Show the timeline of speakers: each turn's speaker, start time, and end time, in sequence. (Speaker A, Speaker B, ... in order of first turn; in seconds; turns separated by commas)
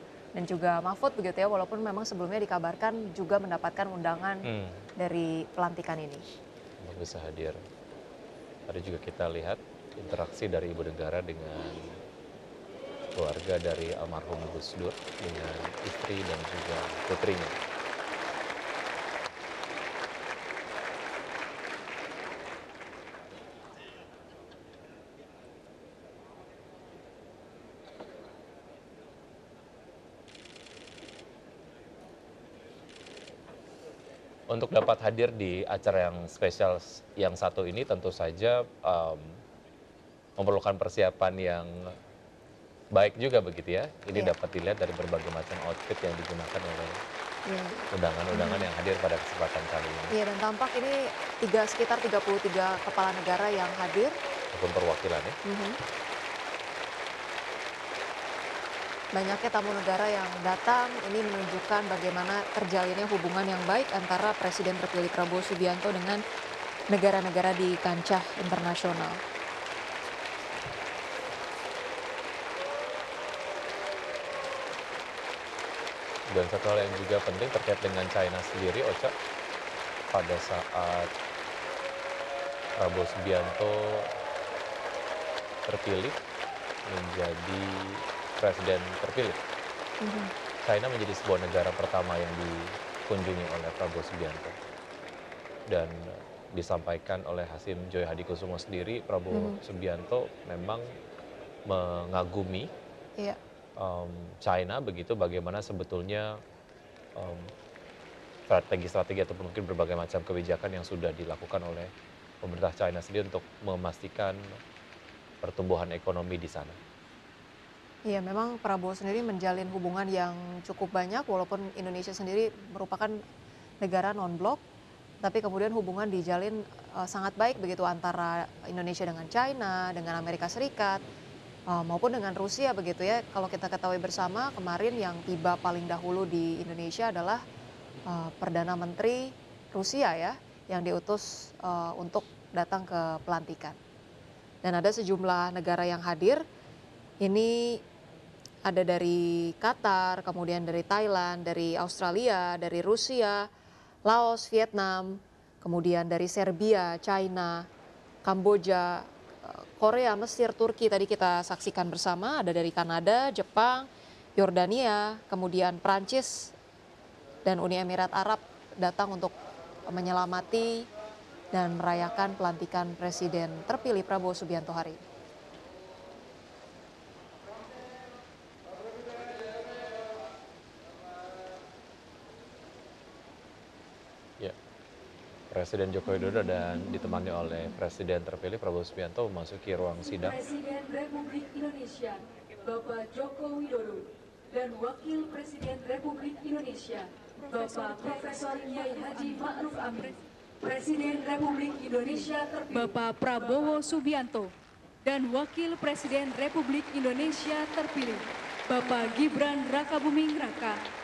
Speaker A: 0.3-4.5, Speaker B: 4.5-4.9, Speaker A: 5.0-6.3, Speaker B: 6.8-7.6, Speaker B: 8.7-12.0, Speaker B: 13.2-17.6, Speaker B: 34.5-39.3, Speaker B: 40.4-41.7, Speaker B: 42.9-47.0, Speaker A: 47.5-48.7, Speaker B: 47.9-50.1, Speaker A: 50.1-54.2, Speaker B: 54.5-55.4, Speaker A: 55.5-55.8, Speaker A: 59.1-66.2, Speaker A: 66.9-69.2, Speaker B: 76.3-79.1, Speaker B: 80.1-81.1, Speaker B: 82.8-84.1, Speaker B: 85.7-86.2, Speaker B: 86.9-89.4, Speaker A: 90.0-90.3, Speaker B: 90.6-94.5, Speaker B: 95.7-100.9, Speaker A: 99.3-99.6, Speaker B: 101.7-102.7, Speaker B: 103.8-106.4, Speaker B: 107.2-107.5, Speaker B: 108.5-111.9, Speaker B: 112.4-114.6, Speaker B: 115.4-116.8, Speaker A: 118.1-123.2, Speaker A: 123.8-124.6, Speaker A: 125.2-131.0, Speaker A: 131.7-137.4, Speaker A: 138.1-143.8, Speaker A: 144.6-146.4, Speaker A: 147.2-147.8, Speaker A: 148.7-153.5, Speaker A: 154.1-157.7, Speaker A: 158.2-166.6, Speaker A: 167.4-170.9, Speaker A: 171.5-175.0, Speaker B: 185.5-190.4, Speaker C: 190.2-204.5, Speaker C: 205.0-210.8